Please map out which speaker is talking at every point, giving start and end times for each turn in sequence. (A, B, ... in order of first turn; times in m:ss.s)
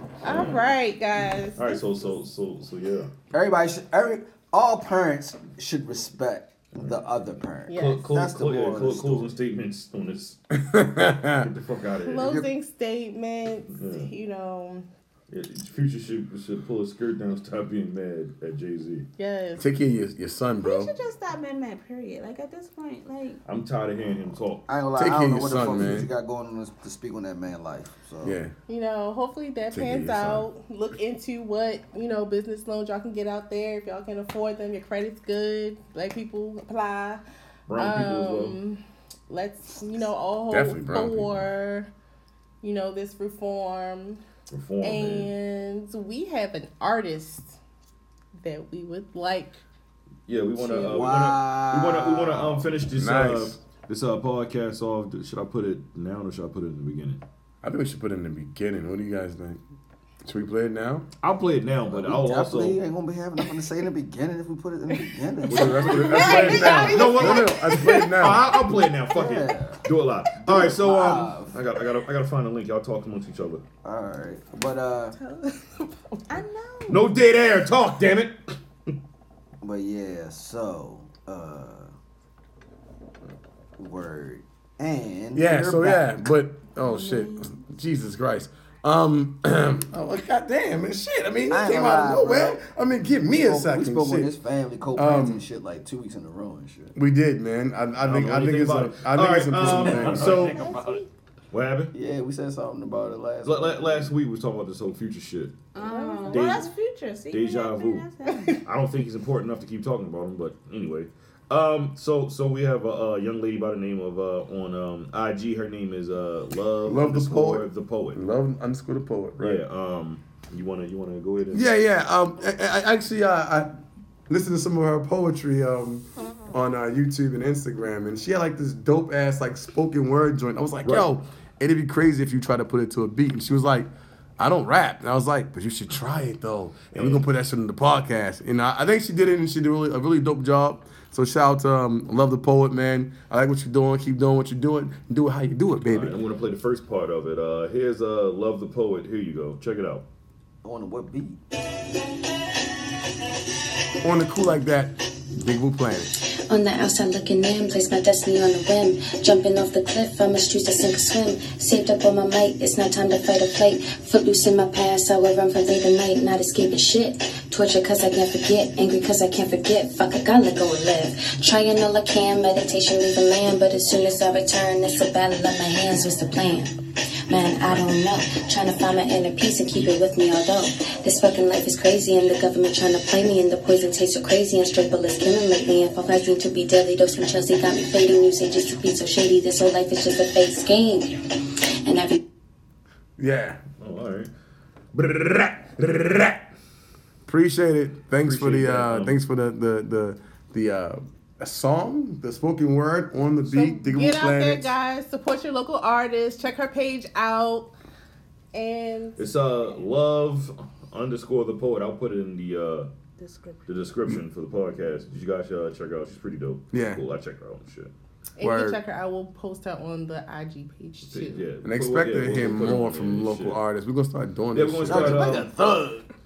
0:00.2-0:01.8 A
0:00.2-0:00.8 B
0:01.6-0:03.1 B
0:03.3-0:09.3 C
0:07.7-0:08.1 A
0:07.7-0:10.4 B
0:10.6-0:11.5 D
0:11.4-0:12.3 B
0:12.0-0:14.8 A
0:12.2-0:12.5 C
0:13.7-0:14.1 B
0:15.3-0:19.0 B
0:19.2-0:19.6 A
0:19.6-0:20.9 D
0:20.6-0:23.4 E
0:23.4-0:24.6 B
0:24.7-0:28.4 C
0:24.9-0:26.1 D
0:28.2-0:28.5 D
0:28.7-0:37.2 A
0:29.7-0:30.5 D
0:37.7-0:38.6 B
0:37.8-0:41.9 A
0:40.5-0:41.5 D
0:42.6-0:44.2 A
0:44.5-0:45.3 B
0:44.8-0:47.6 A
0:48.4-0:49.6 A
0:50.3-0:57.2 B
0:50.6-0:52.7 C
0:52.9-0:53.6 D
0:57.6-0:59.6 D
1:00.2-1:01.0 D
1:01.2-1:02.8 B
1:01.9-1:06.3 C
1:05.5-1:13.6 B
1:05.5-1:08.5 D
1:06.0-1:08.2 A
1:09.1-1:09.8 C
1:10.4-1:11.6 C
1:13.8-1:15.2 C
1:15.2-1:15.9 A
1:16.3-1:17.1 E
1:16.9-1:18.3 B
1:19.6-1:21.9 C
1:23.8-1:26.1 C
1:25.3-1:34.3 D
1:26.8-1:27.5 E
1:31.5-1:32.6 C
1:33.3-1:37.0 C
1:34.9-1:35.4 D
1:37.0-1:40.6 D
1:38.0-1:40.9 B
1:39.7-1:40.4 C
1:40.1-1:41.1 E
1:41.5-1:41.9 B
1:41.9-1:44.1 C
1:43.4-1:45.5 B
1:45.7-1:48.6 E
1:45.8-1:46.7 A
1:46.3-1:46.7 B
1:47.3-1:48.1 B
1:48.3-1:48.6 A
1:48.6-1:58.2 B
1:56.8-1:59.6 D
1:59.4-2:01.7 B
2:01.5-2:03.7 D
2:04.3-2:26.2 D
2:16.9-2:17.2 B
2:25.9-2:30.0 B
2:30.6-2:31.4 C
2:34.0-2:36.1 D
2:36.5-2:56.7 F
2:57.3-3:11.2 F
3:11.8-3:12.2 F
3:13.2-3:13.6 D
3:13.8-3:14.3 B
3:14.9-3:16.5 B
3:17.2-3:24.7 D
3:18.2-3:19.2 B
3:23.4-3:27.7 A
3:28.5-3:29.2 A
3:29.2-3:32.9 B
3:33.2-3:33.6 E
3:33.7-3:37.9 B
3:36.7-3:37.0 D
3:38.4-3:41.5 A
3:38.4-3:38.8 D
3:41.1-3:43.6 B
3:41.6-3:45.4 D
3:44.5-3:45.5 B
3:44.9-3:46.0 C